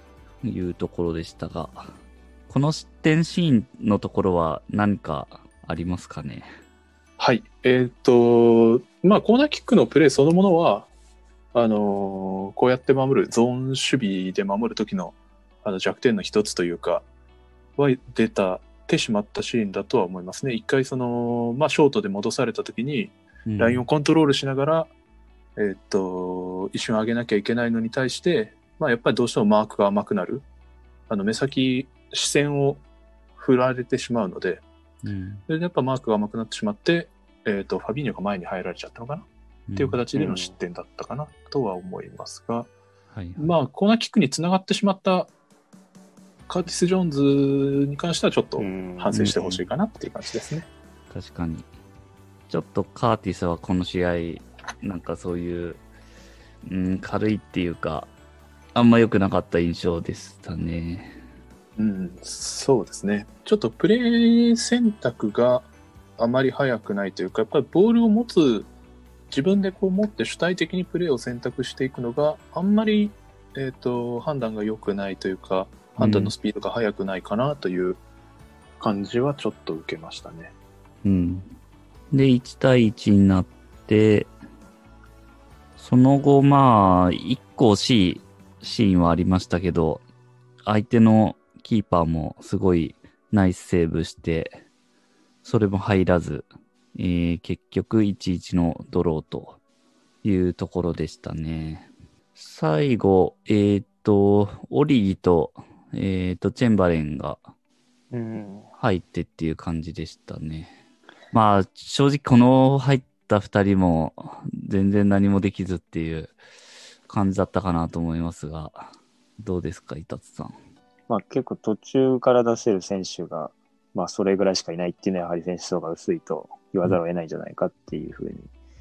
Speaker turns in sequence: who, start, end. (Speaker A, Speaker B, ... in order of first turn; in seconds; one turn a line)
Speaker A: 0.4-1.9
Speaker A: 2.5-6.5
Speaker B: 7.2-10.9
Speaker B: 11.5-17.1
Speaker B: 17.8-24.9
Speaker A: 23.5-23.9
Speaker B: 25.6-30.5
Speaker B: 31.1-32.8
Speaker B: 33.4-34.6
Speaker A: 35.0-35.5
Speaker B: 35.5-42.7
Speaker A: 39.7-40.0
Speaker C: 40.1-40.5
Speaker A: 43.1-43.5
Speaker B: 43.4-45.3
Speaker B: 46.5-50.7
Speaker C: 48.6-49.6
Speaker A: 51.1-51.7
Speaker A: 52.5-55.8
Speaker A: 56.6-58.1
Speaker A: 58.8-61.2
Speaker B: 61.8-68.7
Speaker B: 69.3-78.0
Speaker A: 76.0-76.3
Speaker B: 78.8-80.5
Speaker A: 81.0-81.5
Speaker A: 82.1-84.3
Speaker A: 85.8-90.0
Speaker A: 90.7-94.6
Speaker A: 95.4-99.6
Speaker A: 100.2-107.5
Speaker C: 108.1-108.7
Speaker A: 108.8-110.8
Speaker A: 111.3-116.3
Speaker A: 117.1-120.6
Speaker C: 121.1-128.5